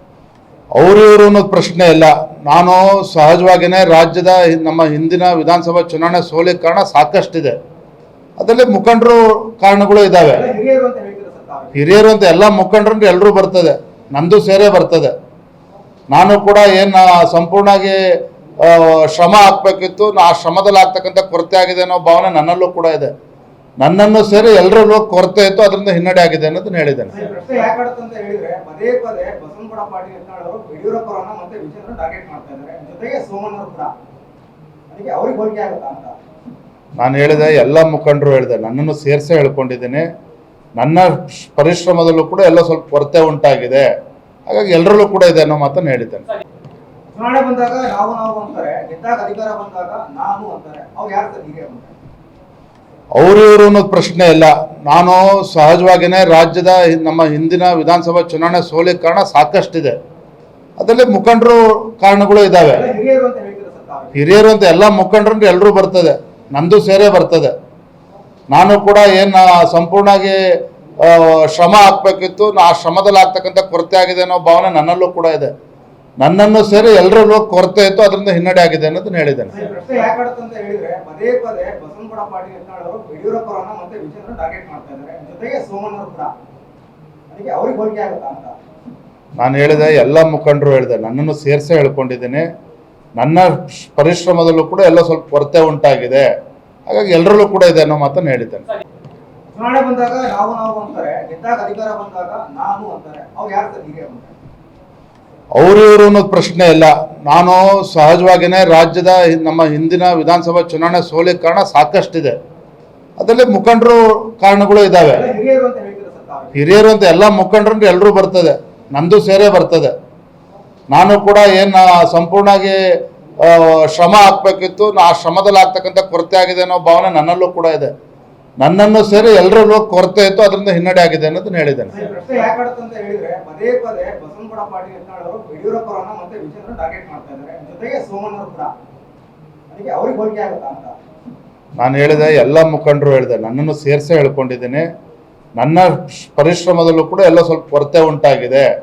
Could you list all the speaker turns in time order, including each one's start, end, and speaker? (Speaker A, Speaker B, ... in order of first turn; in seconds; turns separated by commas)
Speaker A: 0.8-7.5, Speaker A: 8.4-10.5, Speaker B: 10.2-11.8, Speaker A: 11.7-15.1, Speaker A: 16.1-18.0, Speaker A: 18.6-23.1, Speaker A: 23.8-27.1, Speaker B: 27.1-33.9, Speaker B: 34.9-36.2, Speaker A: 37.0-40.1, Speaker A: 40.8-43.8, Speaker A: 44.5-46.2, Speaker B: 47.1-52.0, Speaker A: 53.2-60.0, Speaker A: 60.8-62.9, Speaker B: 62.6-64.2, Speaker A: 64.1-67.5, Speaker A: 68.5-70.4, Speaker A: 71.0-75.5, Speaker A: 76.2-79.5, Speaker B: 79.5-86.3, Speaker B: 87.3-88.6, Speaker A: 89.4-92.5, Speaker A: 93.2-96.2, Speaker A: 96.9-98.7, Speaker B: 99.5-104.3, Speaker A: 105.6-112.3, Speaker A: 113.2-115.3, Speaker B: 115.0-116.6, Speaker A: 116.5-119.9, Speaker A: 120.9-122.8, Speaker A: 123.4-127.9, Speaker A: 128.6-131.9, Speaker B: 131.9-138.7, Speaker B: 139.7-141.0, Speaker A: 141.8-144.9, Speaker A: 145.6-148.6